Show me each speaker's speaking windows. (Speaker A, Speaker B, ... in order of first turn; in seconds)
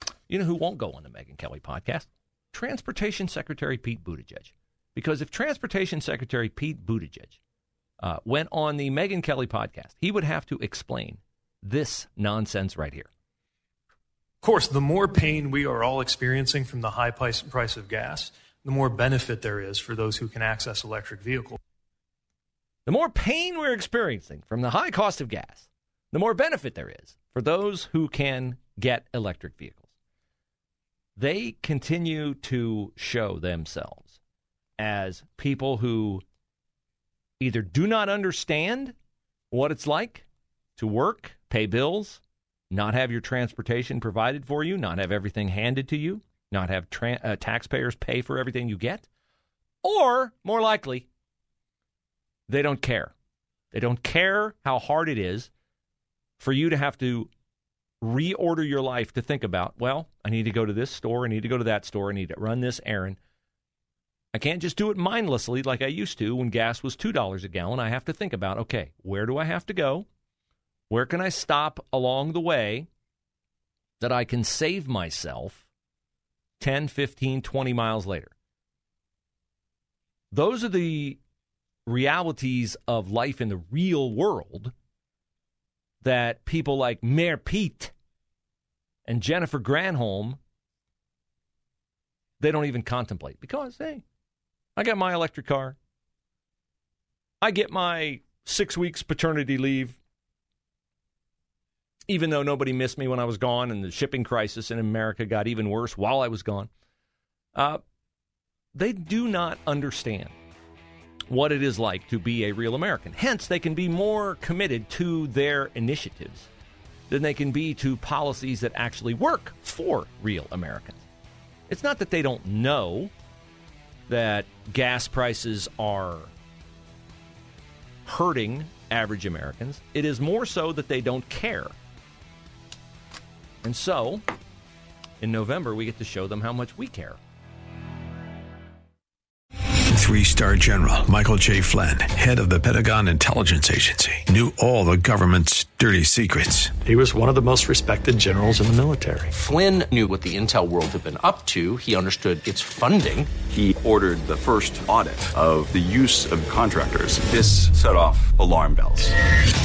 Speaker A: 0.3-7.4, 8.0-13.1, 22.9-29.9, 31.2-34.2, 34.8-36.2, 37.4-39.0, 39.5-40.3, 40.8-49.1, 49.8-51.1, 52.5-53.1, 53.7-55.5, 56.4-57.3, 58.0-63.2, 64.3-70.1, 70.9-72.9, 74.0-75.7, 76.6-78.3, 80.3-81.2, 81.9-84.7, 86.0-87.9, 89.1-90.4, 92.4-94.0, 94.8-95.8, 97.4-100.0, 102.1-106.7, 107.5-107.8, 108.8-110.3, 111.3-116.5, 117.1-121.0, 121.7-123.1, 124.1-126.3, 128.1-131.7, 133.6-134.2, 135.2-137.2
Speaker B: 14.4-21.6
Speaker C: 139.9-146.8
Speaker D: 146.9-149.1
Speaker E: 149.3-153.3
Speaker F: 153.5-159.1